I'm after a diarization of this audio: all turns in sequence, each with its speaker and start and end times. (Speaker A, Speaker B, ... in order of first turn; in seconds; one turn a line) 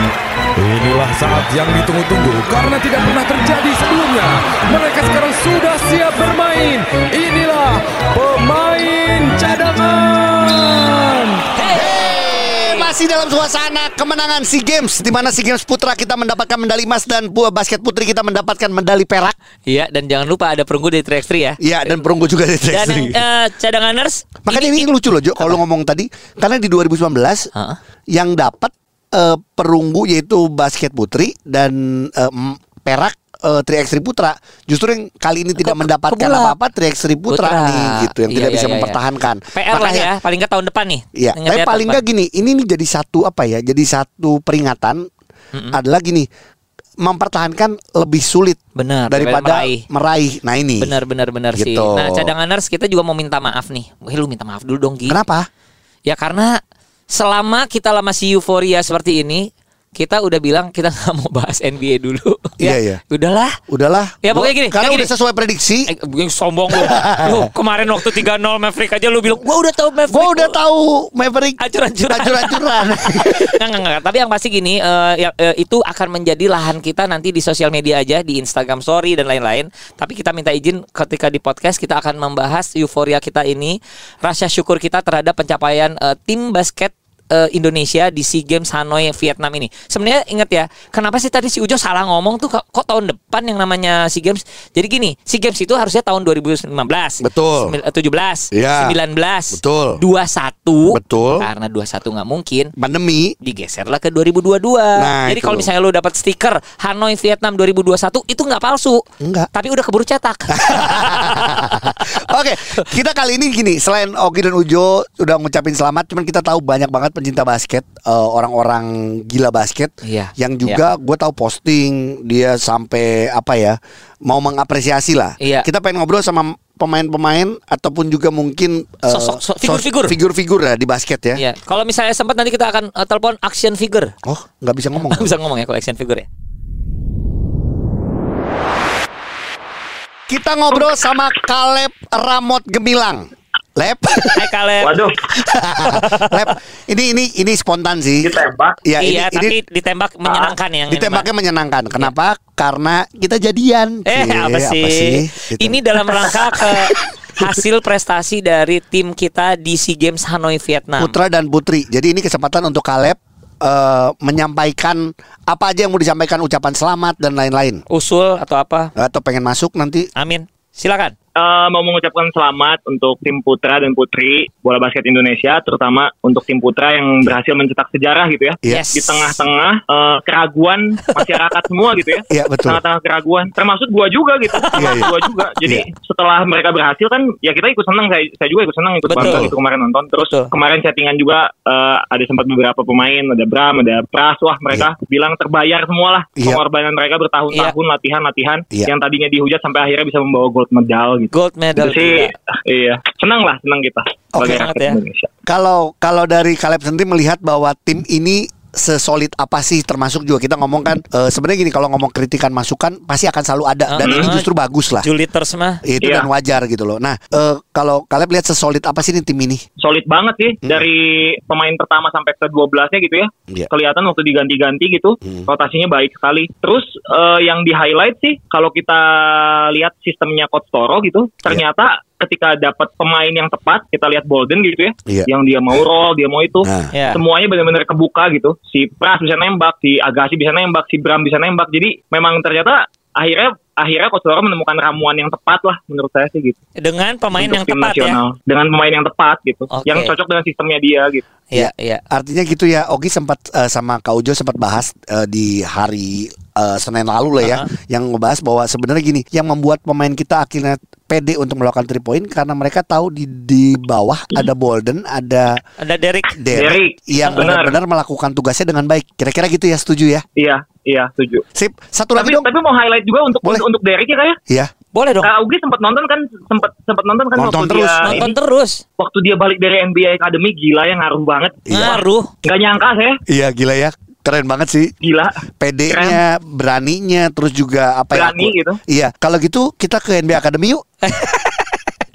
Speaker A: 0.6-11.4
Speaker B: 11.6-12.9
Speaker C: 11.7-19.4
Speaker B: 19.7-21.9
Speaker C: 21.6-23.2
Speaker B: 22.7-25.6
Speaker C: 24.5-27.5
Speaker C: 28.1-40.1
Speaker B: 35.6-36.6
Speaker B: 37.3-39.0
Speaker B: 39.5-42.0
Speaker C: 41.1-45.0
Speaker C: 45.7-46.3
Speaker C: 47.0-50.9
Speaker B: 48.8-49.8
Speaker B: 50.8-55.2
Speaker C: 51.5-52.3
Speaker C: 55.1-55.5
Speaker B: 56.1-56.6
Speaker B: 57.1-63.5
Speaker C: 62.6-63.0
Speaker C: 63.7-65.9
Speaker B: 64.2-65.1
Speaker B: 65.9-70.6
Speaker C: 66.7-67.5
Speaker C: 70.1-73.5
Speaker B: 71.6-102.7
Speaker C: 97.2-97.8
Speaker C: 98.5-99.0
Speaker C: 99.5-100.0
Speaker C: 100.9-101.5
Speaker C: 102.8-103.3
Speaker B: 103.4-109.0
Speaker C: 105.0-105.7
Speaker C: 109.2-109.5
Speaker B: 109.5-112.0
Speaker C: 110.5-131.4
Speaker B: 120.0-120.8
Speaker B: 125.4-125.7
Speaker B: 129.1-130.2
Speaker B: 131.4-134.1
Speaker C: 134.2-135.3
Speaker B: 135.0-136.3
Speaker C: 140.3-144.5
Speaker B: 144.3-144.9
Speaker D: 144.8-145.2
Speaker C: 145.3-149.6
Speaker B: 145.8-146.5
Speaker D: 148.2-148.8
Speaker B: 149.0-151.3
Speaker D: 150.3-150.5
Speaker C: 150.9-156.4
Speaker B: 154.1-161.2
Speaker C: 161.0-167.8
Speaker B: 167.9-168.9
Speaker C: 169.0-170.1
Speaker B: 170.2-171.2
Speaker D: 171.4-205.3
Speaker C: 178.6-178.9
Speaker B: 178.7-179.4
Speaker C: 182.3-182.8
Speaker B: 184.5-185.1
Speaker C: 184.8-185.1
Speaker B: 189.1-189.5
Speaker C: 189.2-189.5
Speaker B: 190.2-190.5
Speaker B: 201.3-202.3
Speaker C: 204.3-204.6
Speaker B: 204.4-205.0
Speaker C: 205.5-215.1
Speaker B: 213.9-214.5
Speaker D: 214.0-214.3
Speaker B: 215.0-215.8
Speaker C: 215.8-219.6
Speaker D: 216.0-216.3
Speaker D: 219.8-246.6
Speaker C: 236.6-236.9
Speaker B: 236.9-237.2
Speaker B: 246.8-248.2
Speaker D: 247.3-251.3
Speaker B: 249.7-250.1
Speaker B: 251.5-252.0
Speaker C: 251.5-265.6
Speaker B: 257.4-257.7
Speaker B: 265.8-266.4
Speaker C: 266.4-270.2
Speaker D: 266.5-267.8
Speaker B: 267.2-267.5
Speaker D: 270.4-271.4
Speaker C: 271.6-272.5
Speaker D: 272.2-274.4
Speaker B: 274.9-275.3
Speaker D: 275.2-278.3
Speaker C: 277.4-278.3
Speaker B: 278.0-278.8
Speaker D: 279.0-283.2
Speaker C: 281.7-282.0
Speaker B: 281.7-282.3
Speaker C: 283.3-284.9
Speaker D: 285.0-286.2
Speaker C: 285.6-290.8
Speaker D: 288.1-288.8
Speaker B: 291.0-291.8